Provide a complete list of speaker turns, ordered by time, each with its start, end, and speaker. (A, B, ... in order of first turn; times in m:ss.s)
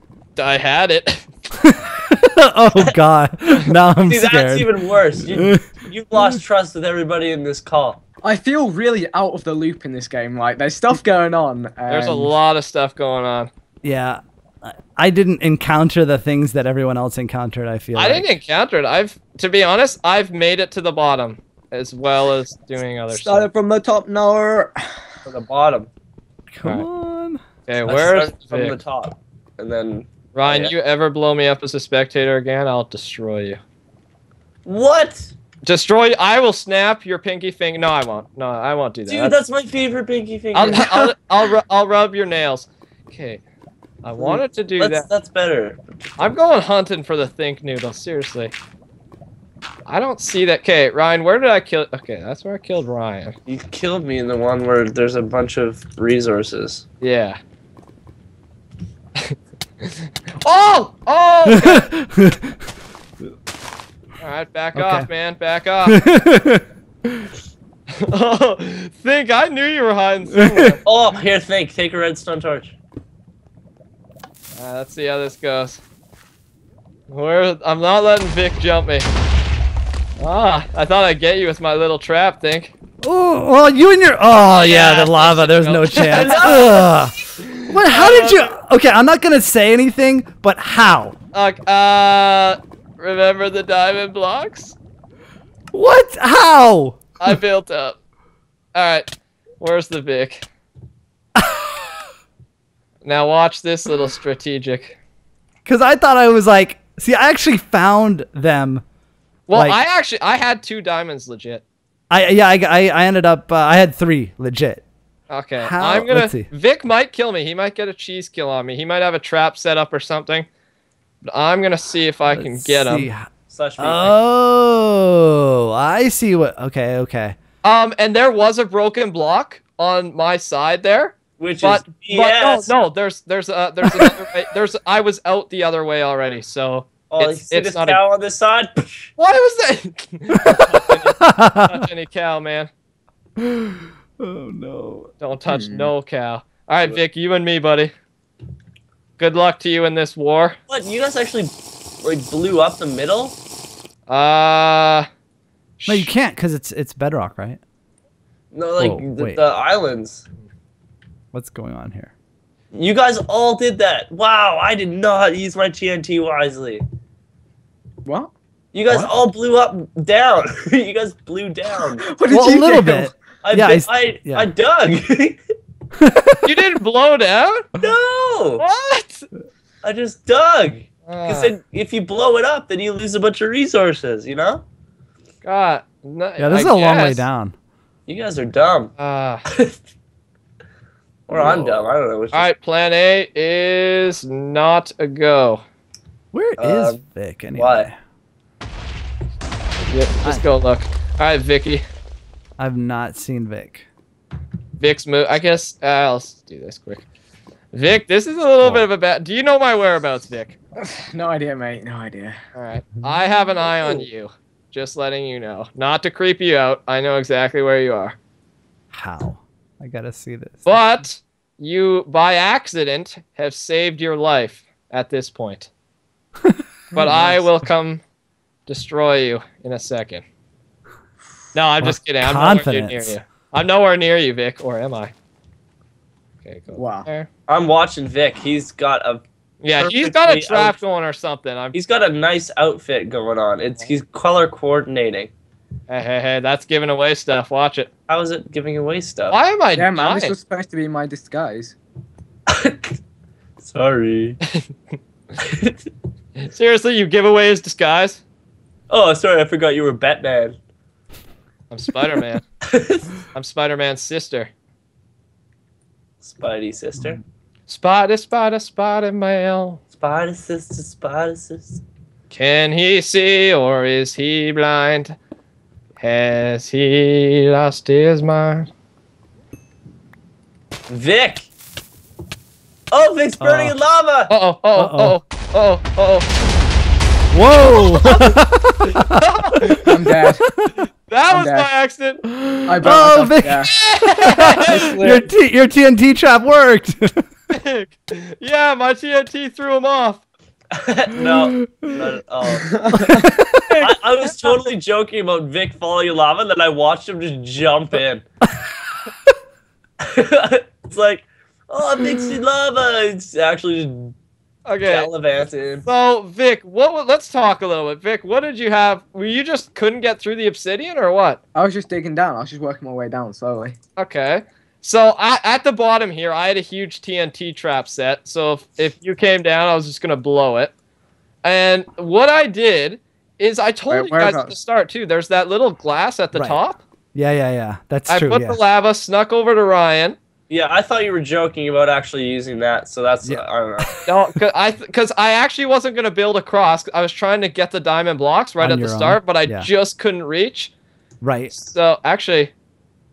0:00.4-0:01.3 A
0:01.6-0:05.6 B
0:04.0-0:08.0 C
0:08.2-0:12.4 D
0:11.9-0:13.5 A
0:13.8-0:18.3 B
0:17.9-0:23.5 A
0:23.1-0:25.0 D
0:25.2-0:25.9 C
0:26.5-0:27.4 B
0:27.7-0:28.8 A
0:27.8-0:30.7 C
0:30.3-0:33.6 A
0:34.6-0:35.3 C
0:35.6-0:39.4 A
0:39.1-0:41.1 C
0:40.5-0:43.4 A
0:44.0-0:45.0 A
0:44.2-0:46.2 C
0:46.2-0:48.5 A
0:49.8-0:53.4 A
0:53.5-0:56.8 C
0:57.0-0:57.4 A
0:59.2-1:01.9 A
1:01.4-1:02.6 B
1:04.2-1:06.0 A
1:04.7-1:05.1 B
1:05.8-1:07.3 B
1:08.0-1:10.8 A
1:10.3-1:10.7 B
1:10.8-1:12.8 C
1:14.5-1:15.8 A
1:17.1-1:19.1 A
1:20.2-1:22.7 A
1:23.0-1:31.2 B
1:24.3-1:26.7 A
1:26.0-1:26.9 C
1:27.4-1:28.5 A
1:31.3-1:34.8 A
1:35.7-1:37.4 B
1:37.2-1:38.0 A
1:38.7-1:39.1 A
1:39.6-1:40.5 A
1:41.4-1:41.9 B
1:43.0-1:45.0 A
1:45.6-1:48.8 B
1:49.5-1:51.6 A
1:49.5-1:49.8 B
1:52.1-1:54.8 B
1:55.3-2:00.5 A
1:55.6-1:56.5 B
2:01.2-2:03.1 A
2:02.3-2:07.4 B
2:03.5-2:04.2 C
2:07.6-2:18.0 A
2:11.4-2:12.7 C
2:13.8-2:14.1 B
2:17.1-2:19.1 C
2:19.2-2:22.7 A
2:20.4-2:21.8 B
2:23.4-2:25.1 B
2:25.2-2:27.9 A
2:25.5-2:25.9 D
2:29.2-2:30.6 A
2:30.7-2:33.4 C
2:34.1-2:35.1 A
2:35.8-2:36.1 A
2:35.8-2:37.6 B
2:38.5-2:40.2 C
2:38.8-2:39.4 B
2:41.3-2:42.1 B
2:42.7-2:46.8 C
2:48.0-2:48.3 D
2:48.7-2:52.0 C
2:48.9-2:49.1 B
2:51.8-2:53.1 D
2:52.3-2:54.5 B
2:53.4-2:55.4 C
2:56.0-2:56.5 B
2:56.4-2:57.6 A
2:57.8-2:58.6 C
2:58.6-2:59.3 A
2:59.8-3:04.6 C
3:01.0-3:01.5 A
3:05.4-3:07.2 A
3:06.4-3:07.5 B
3:08.1-3:08.9 C
3:09.0-3:09.4 A
3:09.5-3:09.8 C
3:11.3-3:12.5 C
3:12.3-3:15.6 A
3:16.3-3:17.9 B
3:16.6-3:17.0 C
3:17.5-3:17.9 C
3:19.9-3:21.8 A
3:22.6-3:23.8 B
3:24.8-3:27.0 A
3:27.7-3:30.6 A
3:30.8-3:32.4 D
3:32.5-3:38.2 A
3:38.9-3:40.8 B
3:40.6-3:45.7 A
3:46.9-3:47.4 D
3:46.9-3:48.0 A
3:48.6-3:50.2 A
3:51.5-3:55.1 A
3:51.8-3:53.1 B
3:56.4-3:57.3 A
3:56.7-3:57.1 D
3:57.5-3:59.2 C
3:59.6-4:01.8 A
3:59.8-4:00.8 C
4:01.7-4:05.3 C
4:05.9-4:07.9 A
4:08.1-4:09.4 C
4:09.3-4:10.3 A
4:09.7-4:11.8 D
4:12.5-4:13.0 C
4:13.6-4:14.4 C
4:15.4-4:15.8 C
4:16.4-4:18.2 A
4:18.9-4:20.6 C
4:21.7-4:22.4 A
4:22.6-4:23.1 C
4:23.3-4:24.5 A
4:26.2-4:27.2 C
4:27.7-4:29.8 A
4:29.9-4:31.8 C
4:32.3-4:35.2 A
4:36.0-4:38.7 A
4:40.9-4:41.5 C
4:42.9-4:44.3 C
4:43.4-4:43.7 A
4:44.3-4:46.3 A
4:44.8-4:45.2 B
4:47.3-4:50.8 B
4:47.7-4:48.3 A
4:48.8-4:49.8 A
4:49.8-4:50.5 D
4:51.1-4:52.2 A
4:51.3-4:51.7 D
4:52.4-4:57.3 B
4:52.6-4:53.7 D
4:53.6-4:54.8 A
4:54.6-4:55.3 D
4:57.5-5:00.2 A
5:00.7-5:02.8 C
5:01.2-5:02.0 B
5:02.7-5:03.2 D
5:02.9-5:03.9 B
5:03.8-5:08.2 C
5:10.0-5:14.1 C
5:14.6-5:15.1 A
5:14.9-5:15.8 C
5:15.8-5:21.4 A
5:21.5-5:23.8 D
5:24.0-5:30.7 A
5:31.4-5:36.8 A
5:33.9-5:34.6 D
5:36.3-5:36.6 B
5:37.1-5:38.6 B
5:38.1-5:40.2 A
5:40.5-5:43.9 C
5:43.2-5:44.0 B
5:44.0-5:50.7 A
5:48.6-5:49.7 B
5:51.2-5:51.5 B
5:51.5-5:52.5 A